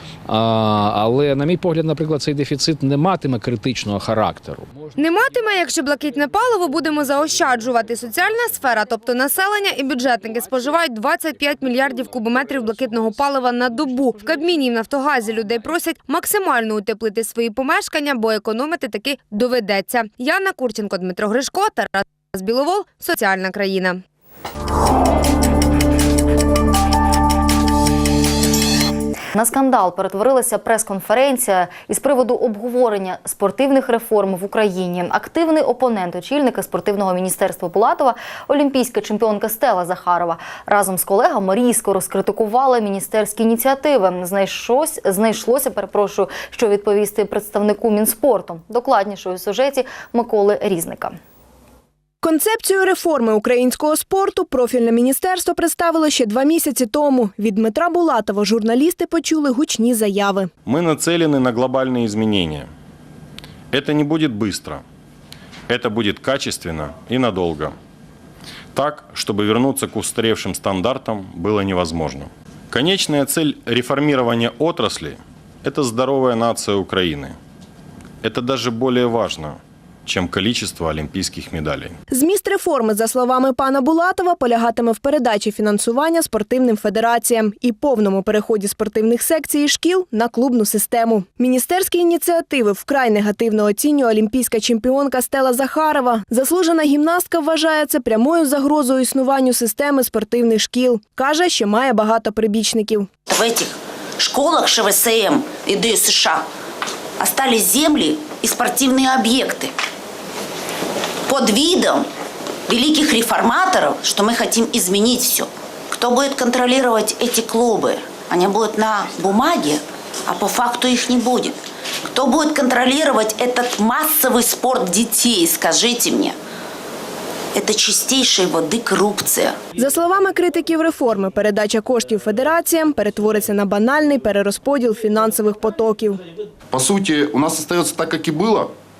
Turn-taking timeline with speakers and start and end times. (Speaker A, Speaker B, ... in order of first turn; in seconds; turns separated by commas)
Speaker A: 0.3-4.7, Speaker B: 5.0-24.0, Speaker C: 29.3-51.1, Speaker D: 52.2-60.5, Speaker E: 60.6-62.7, Speaker E: 63.7-64.8, Speaker E: 65.7-67.8, Speaker E: 68.7-77.3, Speaker E: 78.2-81.9, Speaker D: 82.1-103.1, Speaker F: 103.3-106.4, Speaker F: 107.2-109.7, Speaker F: 111.3-112.0, Speaker F: 112.7-121.5, Speaker F: 122.1-126.3, Speaker F: 127.5-129.5, Speaker D: 129.8-136.2, Speaker G: 136.7-138.7